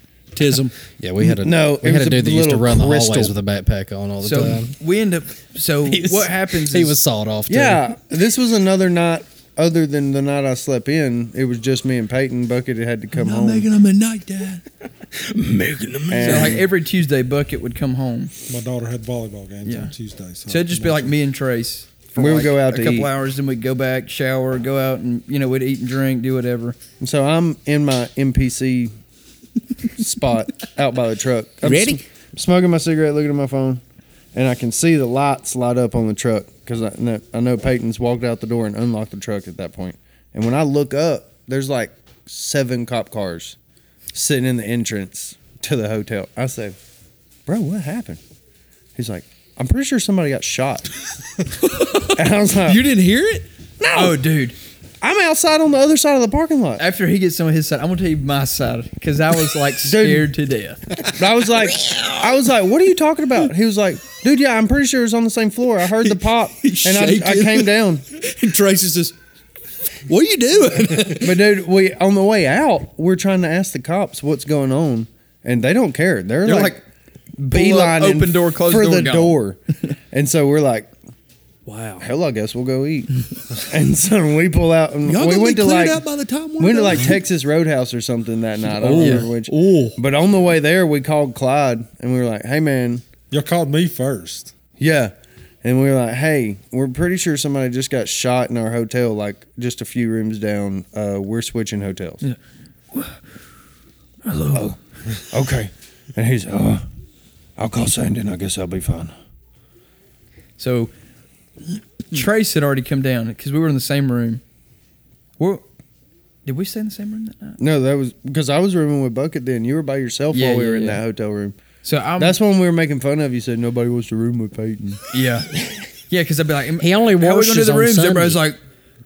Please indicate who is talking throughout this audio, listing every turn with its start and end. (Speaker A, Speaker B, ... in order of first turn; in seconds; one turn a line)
Speaker A: 0.3-0.7
Speaker B: 0.9-4.7
Speaker C: 1.2-3.4
Speaker D: 4.2-7.0
Speaker B: 5.9-7.8
Speaker C: 7.5-13.7
Speaker A: 13.1-14.6
Speaker B: 15.0-16.6
Speaker C: 16.1-16.7
Speaker D: 16.2-18.3
Speaker E: 18.5-21.1
Speaker D: 19.6-19.9
Speaker D: 20.4-26.8
Speaker C: 22.2-23.1
Speaker C: 27.0-28.9
Speaker C: 29.9-33.8
Speaker A: 31.6-32.0
Speaker C: 34.3-43.6
Speaker C: 44.1-46.8
Speaker C: 47.5-48.2
Speaker C: 49.0-51.0
Speaker A: 51.5-53.5
Speaker C: 52.1-52.8
Speaker C: 53.8-54.2
Speaker D: 53.9-54.6
Speaker C: 55.0-56.8
Speaker D: 56.8-61.0
Speaker C: 59.8-60.3
Speaker C: 61.0-68.0
Speaker A: 66.6-69.1
Speaker A: 70.1-71.4
Speaker C: 71.1-76.8
Speaker D: 76.5-76.8
Speaker C: 77.4-79.6
Speaker D: 77.5-79.4
Speaker C: 80.1-80.9
Speaker A: 81.7-82.1
Speaker C: 82.0-86.0
Speaker A: 85.0-87.2
Speaker C: 86.6-93.1
Speaker A: 88.6-90.0
Speaker D: 89.0-89.3
Speaker E: 93.3-94.5
Speaker C: 94.8-102.2
Speaker D: 102.9-103.2
Speaker D: 104.2-104.7
Speaker C: 105.3-106.8
Speaker C: 107.6-109.1
Speaker D: 110.6-110.9
Speaker D: 112.1-114.4
Speaker D: 116.5-117.6
Speaker C: 117.6-121.6
Speaker D: 120.3-121.0
Speaker D: 121.8-122.4
Speaker C: 122.2-125.0
Speaker D: 125.1-125.5
Speaker D: 126.1-128.6
Speaker B: 126.8-128.4